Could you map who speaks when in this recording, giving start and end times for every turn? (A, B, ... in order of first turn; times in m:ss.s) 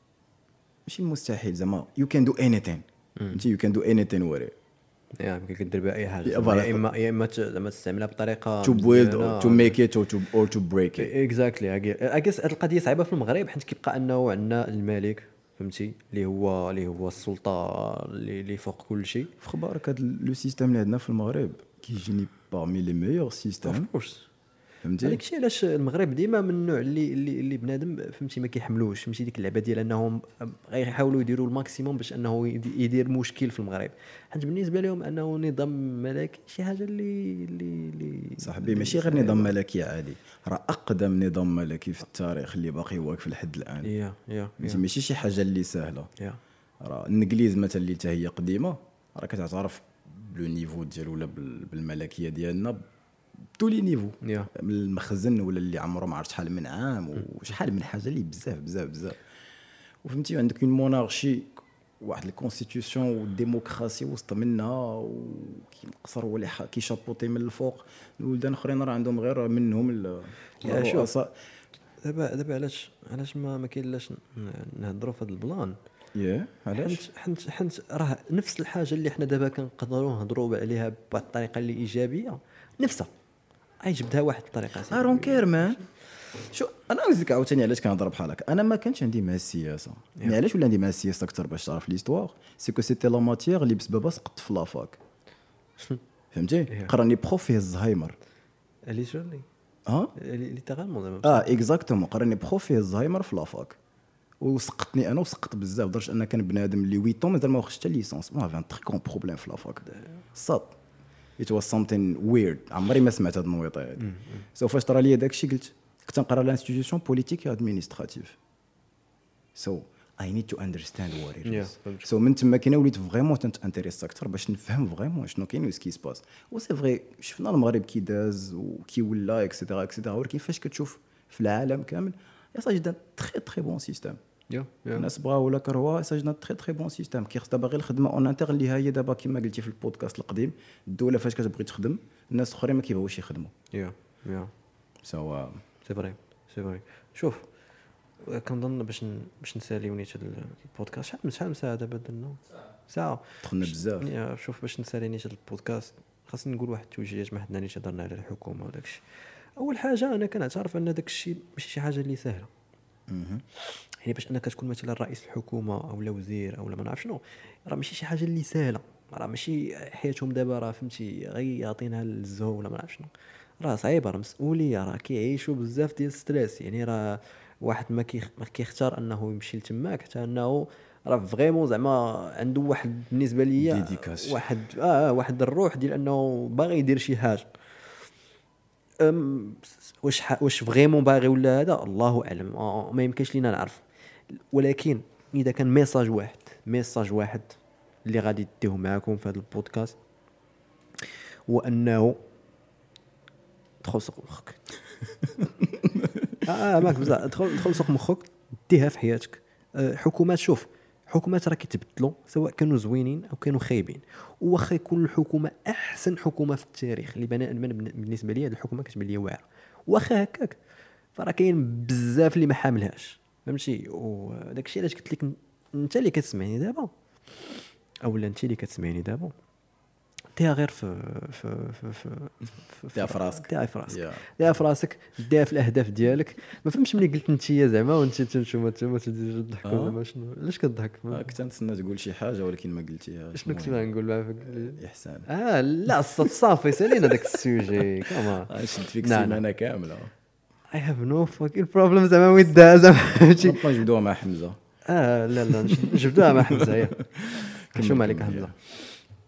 0:00.8-0:04.5 A
0:05.2-0:09.7 B
0:06.2-0:06.8 A
0:08.6-0:11.1 A
0:11.0-0:19.3 B
0:19.4-0:23.9 A
0:23.6-0:24.3 B
0:24.8-0:25.2 A
0:25.0-0:39.5 B
0:38.4-0:43.9 A
0:43.8-0:44.8 B
0:44.6-0:46.1 A
0:46.8-0:52.8 A
0:53.6-0:59.2 A
0:54.2-0:54.5 B
1:00.0-1:11.3 A
1:10.6-1:11.1 B
1:12.0-1:15.8 B
1:16.1-1:17.0 A
1:16.8-1:23.1 B
1:23.8-1:25.8 B
1:24.9-1:25.8 A
1:26.4-1:35.0 A
1:36.3-1:38.2 A
1:38.9-1:39.4 B
1:39.8-1:40.1 A
1:40.2-1:41.5 B
1:41.2-1:43.8 A
1:44.4-1:50.8 A
1:51.4-1:58.4 A
1:54.0-1:54.4 B
1:59.5-2:14.2 A
2:01.4-2:02.1 B
2:14.5-2:15.1 B
2:14.9-2:23.5 A
2:23.7-2:24.5 B
2:25.0-2:25.6 A
2:25.8-2:27.4 B
2:28.2-2:39.0 B
2:33.4-2:34.1 A
2:39.6-2:42.5 B
2:43.1-2:43.4 A
2:44.0-3:07.5 B
3:03.6-3:04.4 A
3:09.0-3:20.0 B
3:21.5-3:22.2 B
3:23.8-3:24.6 B
3:25.7-3:27.1 A
3:26.4-3:40.6 B
3:41.2-3:46.9 B
3:48.0-3:49.3 B
3:50.4-4:01.3 B
3:52.9-3:54.2 A
3:59.6-4:00.0 A
4:01.1-4:03.8 A
4:03.3-4:09.4 B
4:04.6-4:05.3 A
4:06.8-4:10.1 A
4:10.7-4:13.8 B
4:13.4-4:14.6 A
4:14.9-4:17.0 B
4:15.5-4:18.5 A
4:17.7-4:18.5 B